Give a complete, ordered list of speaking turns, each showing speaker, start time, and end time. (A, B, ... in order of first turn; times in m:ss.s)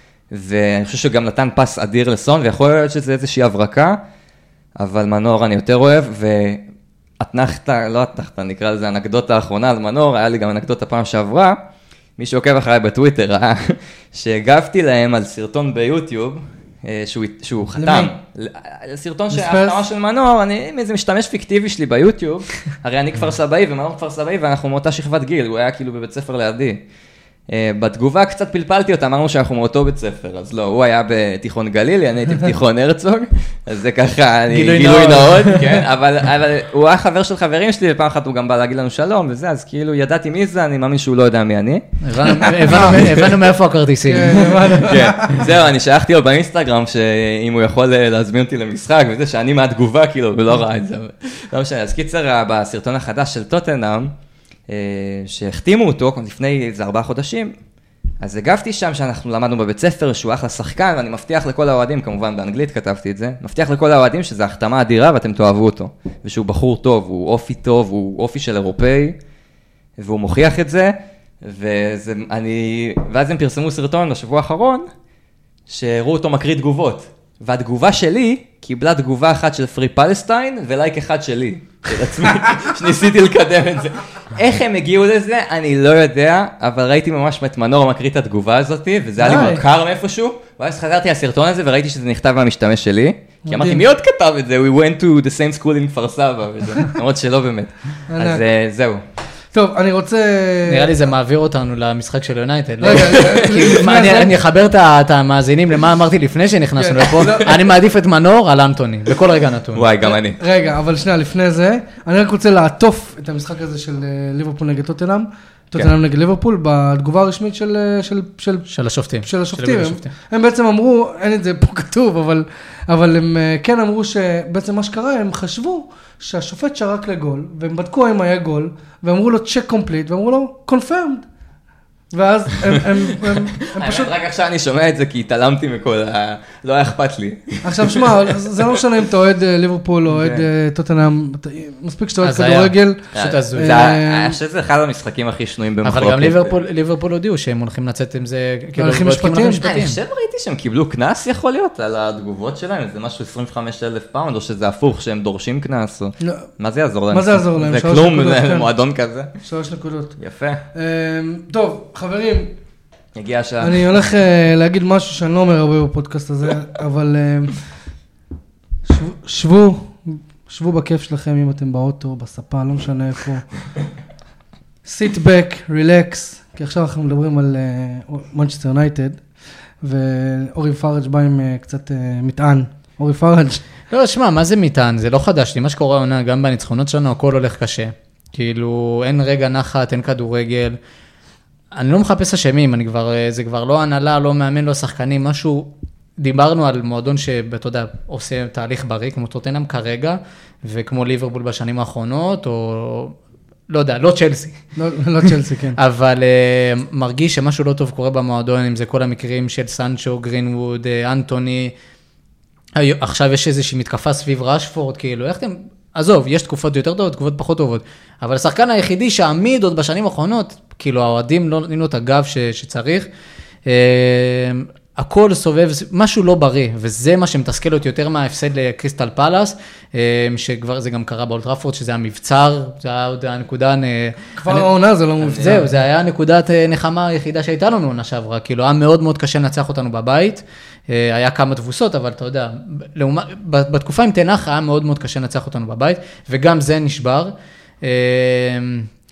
0:00.3-0:04.0 A
0:04.8-0:06.6 A
0:07.2-0:11.6 A
0:12.2-0:26.8 A
0:17.8-0:18.1 B
0:19.3-0:19.8 B
0:27.5-0:43.3 A
0:34.5-0:35.8 C
0:42.0-0:44.9 C
0:42.7-0:43.1 B
0:44.1-0:45.5 B
0:44.8-0:54.1 A
0:54.7-0:57.5 A
0:58.2-1:09.2 A
1:10.0-1:14.9 A
1:15.7-1:39.0 A
1:29.2-1:29.6 B
1:33.5-1:33.9 B
1:38.1-1:38.4 B
1:39.5-1:41.0 B
1:40.6-1:49.9 C
1:42.8-1:44.4 B
1:43.1-1:43.6 A
1:46.8-1:47.6 B
1:49.8-1:50.4 A
1:50.0-1:58.7 B
1:58.7-2:00.1 C
1:59.2-2:11.3 B
2:12.1-2:14.1 B
2:12.7-2:18.8 A
2:17.6-2:24.4 B
2:20.1-2:20.5 A
2:22.2-2:23.8 C
2:23.2-2:26.6 A
2:25.8-2:30.0 C
2:28.8-2:29.6 B
2:29.6-2:39.3 A
2:36.2-2:36.5 B
2:37.1-2:38.7 B
2:39.4-2:40.2 B
2:40.2-2:40.6 A
2:40.7-2:42.6 B
2:43.2-2:44.0 A
2:43.6-2:47.6 B
2:48.8-2:53.4 B
2:54.8-2:59.2 B
2:59.8-3:03.6 B
3:03.9-3:10.8 C
3:11.7-3:23.2 C
3:23.7-3:24.6 C
3:24.8-3:25.8 B
3:25.8-3:31.8 C
3:32.8-3:43.1 C
3:43.7-3:54.7 C
3:54.4-3:55.7 B
3:55.2-3:55.7 A
3:55.4-4:08.9 C